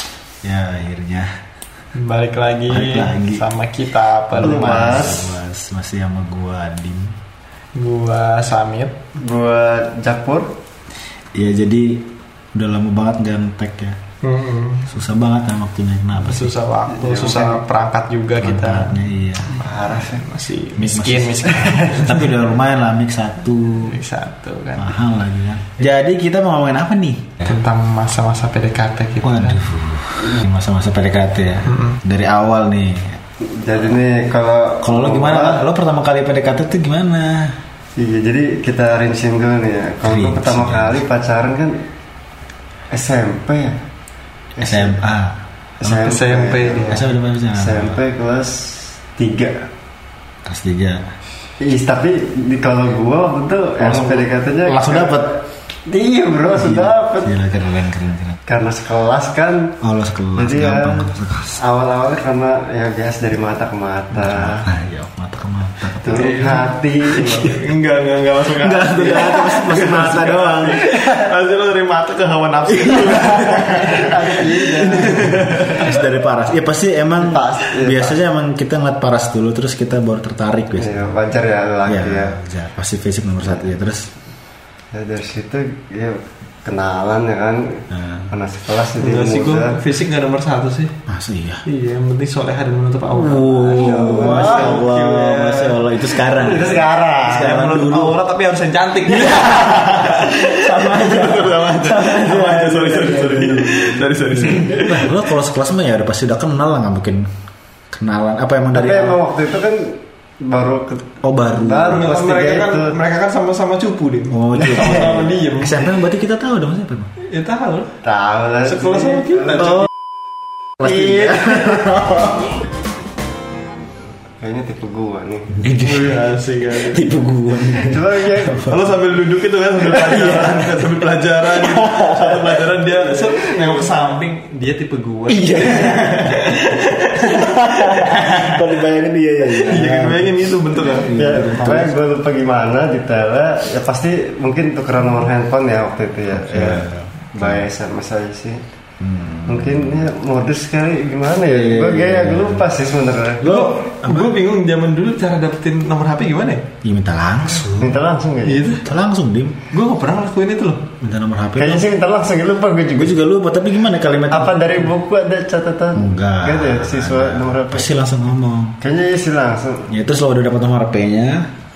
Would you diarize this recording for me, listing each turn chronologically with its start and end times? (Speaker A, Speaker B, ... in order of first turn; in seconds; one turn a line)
Speaker A: 0.4-1.3
Speaker B: 1.9-5.0
Speaker A: 2.7-3.4
Speaker A: 4.4-7.2
Speaker C: 4.4-5.4
Speaker B: 7.8-8.9
Speaker C: 9.1-10.5
Speaker A: 11.3-14.0
Speaker B: 14.2-14.9
Speaker A: 14.9-16.5
Speaker B: 16.2-22.3
Speaker C: 16.9-17.6
Speaker A: 18.4-19.5
Speaker C: 19.6-20.1
Speaker A: 20.8-23.9
Speaker B: 23.8-24.9
Speaker A: 24.8-27.5
Speaker B: 27.4-29.6
Speaker A: 29.2-33.2
Speaker B: 31.6-32.0
Speaker C: 33.4-35.6
Speaker A: 34.8-37.6
Speaker C: 38.0-41.8
Speaker A: 40.0-41.0
Speaker C: 42.9-43.8
Speaker C: 44.5-45.0
Speaker A: 44.6-46.1
Speaker C: 45.8-49.7
Speaker B: 46.0-47.0
Speaker A: 46.9-48.0
Speaker A: 50.4-51.0
Speaker C: 51.6-55.3
Speaker A: 53.8-55.4
Speaker C: 55.9-57.3
Speaker A: 56.5-58.4
Speaker C: 58.5-59.8
Speaker A: 59.8-61.6
Speaker C: 60.3-64.7
Speaker A: 64.1-66.4
Speaker C: 66.0-67.5
Speaker B: 66.1-75.9
Speaker A: 67.3-67.5
Speaker A: 68.6-70.9
Speaker A: 72.7-74.1
Speaker C: 73.8-75.5
Speaker A: 74.8-81.1
Speaker C: 77.2-78.2
Speaker C: 80.8-82.4
Speaker A: 81.8-84.1
Speaker C: 84.9-89.8
Speaker A: 87.9-88.3
Speaker B: 89.0-90.9
Speaker A: 91.1-91.6
Speaker B: 91.7-96.0
Speaker A: 93.1-98.2
Speaker C: 93.8-94.8
Speaker C: 96.3-97.6
Speaker B: 97.2-105.1
Speaker A: 99.2-101.9
Speaker C: 101.0-104.0
Speaker A: 104.3-107.3
Speaker A: 107.9-109.2
Speaker C: 108.7-113.0
Speaker A: 111.2-112.1
Speaker B: 111.9-115.9
Speaker A: 114.3-117.1
Speaker C: 114.8-115.1
Speaker B: 117.2-117.9
Speaker C: 118.0-119.7
Speaker B: 118.6-119.9
Speaker C: 120.8-122.2
Speaker A: 120.8-122.2
Speaker C: 124.4-125.6
Speaker A: 125.6-128.8
Speaker B: 125.8-127.0
Speaker C: 127.7-128.6
Speaker B: 128.7-138.6
Speaker A: 130.1-130.7
Speaker A: 131.6-132.3
Speaker C: 133.3-133.8
Speaker A: 135.3-136.4
Speaker A: 137.2-141.9
Speaker B: 139.6-141.1
Speaker C: 141.0-148.6
Speaker A: 146.3-147.7
Speaker A: 149.0-150.1
Speaker C: 149.4-153.5
Speaker A: 151.5-152.6
Speaker A: 153.4-154.4
Speaker B: 153.4-156.7
Speaker A: 156.8-158.0
Speaker C: 157.8-158.7
Speaker B: 158.4-158.8
Speaker A: 158.8-159.6
Speaker B: 159.7-160.9
Speaker A: 161.0-161.9
Speaker C: 161.6-163.2
Speaker A: 163.0-164.9
Speaker C: 164.3-167.9
Speaker A: 165.9-168.8
Speaker C: 168.8-169.9
Speaker A: 169.9-171.5